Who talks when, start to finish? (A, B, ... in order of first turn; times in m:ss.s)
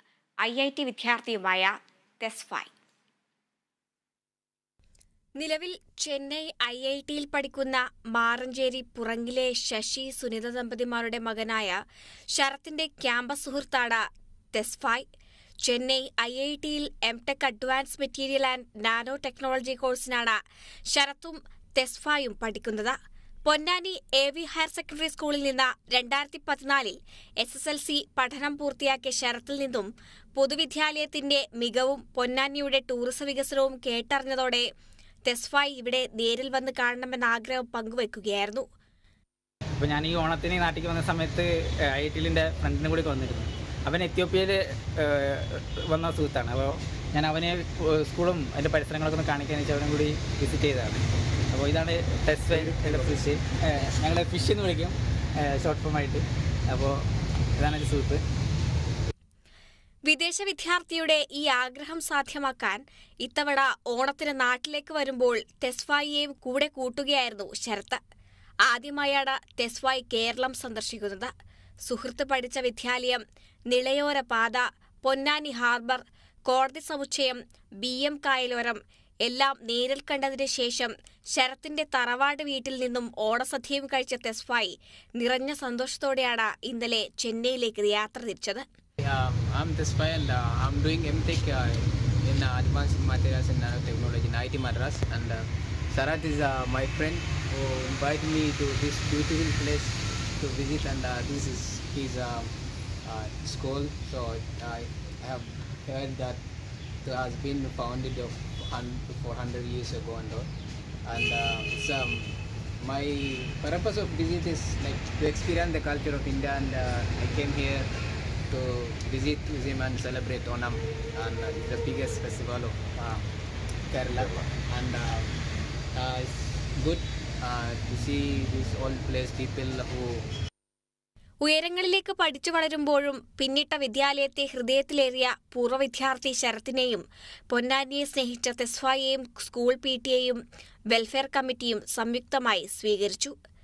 0:00.4-0:02.7 A
0:05.4-0:11.8 A
0:12.3-0:15.1 A
0:15.6-0:34.7 A
0:35.3-0:38.6 A
0:39.8-0:57.0 B
0:52.5-0:53.2 C
0:57.6-0:58.2 B
1:00.1-1:08.0 A
1:08.6-1:11.3 A
1:11.8-1:28.6 A
1:29.0-1:46.4 C
1:47.0-1:50.5 C
1:51.1-1:57.9 C
1:58.5-2:03.3 C
2:03.9-2:05.3 C
2:06.0-2:10.3 C
2:11.4-2:23.4 A